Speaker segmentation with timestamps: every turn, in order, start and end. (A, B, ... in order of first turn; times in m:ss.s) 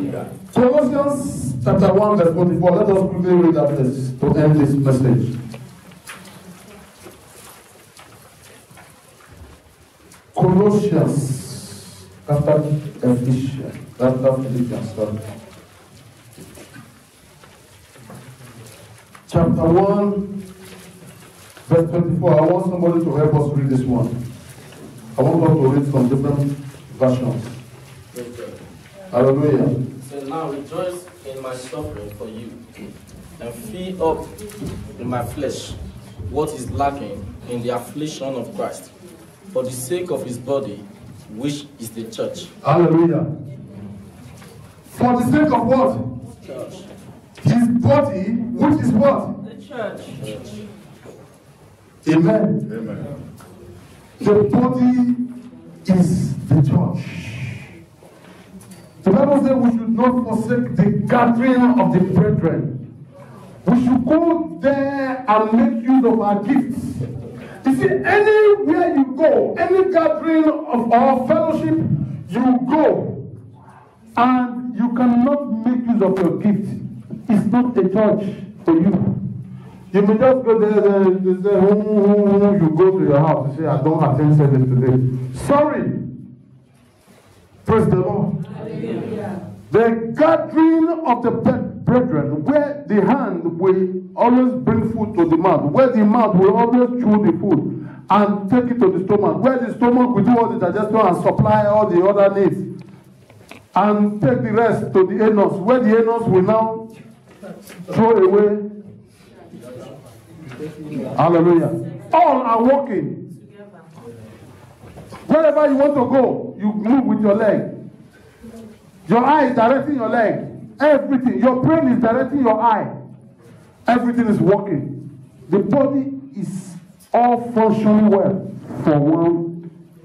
0:00.5-0:05.4 A
0:10.3-0:15.2 A
0:19.3-0:20.2 A
0:21.7-0:24.1 A
0:25.2-0:27.5 A
0:28.1-0:28.6 B
0:29.1-0:29.7 A
0:30.0-0:32.6 B
0:33.4-0:34.3 B
0:35.0-0:38.9 B
0:39.5-0:42.5 B
0:42.6-0:43.3 A
0:44.9-0:46.0 A
0:46.4-0:46.8 B
0:47.4-0:49.3 A
0:52.0-0:52.6 A
0:54.2-0:55.2 A
0:55.8-0:57.6 A
0:59.0-1:02.7 A
1:03.6-1:07.0 A
1:07.6-1:13.2 A
1:14.2-1:19.2 A
1:19.9-1:26.0 A
1:27.6-1:28.3 A
1:29.7-1:42.6 A
1:43.7-1:46.8 A
1:47.9-1:48.6 A
1:51.1-1:53.2 A
1:55.3-1:57.7 A
1:59.1-2:02.9 A
2:03.8-2:04.9 A
2:05.5-2:09.5 A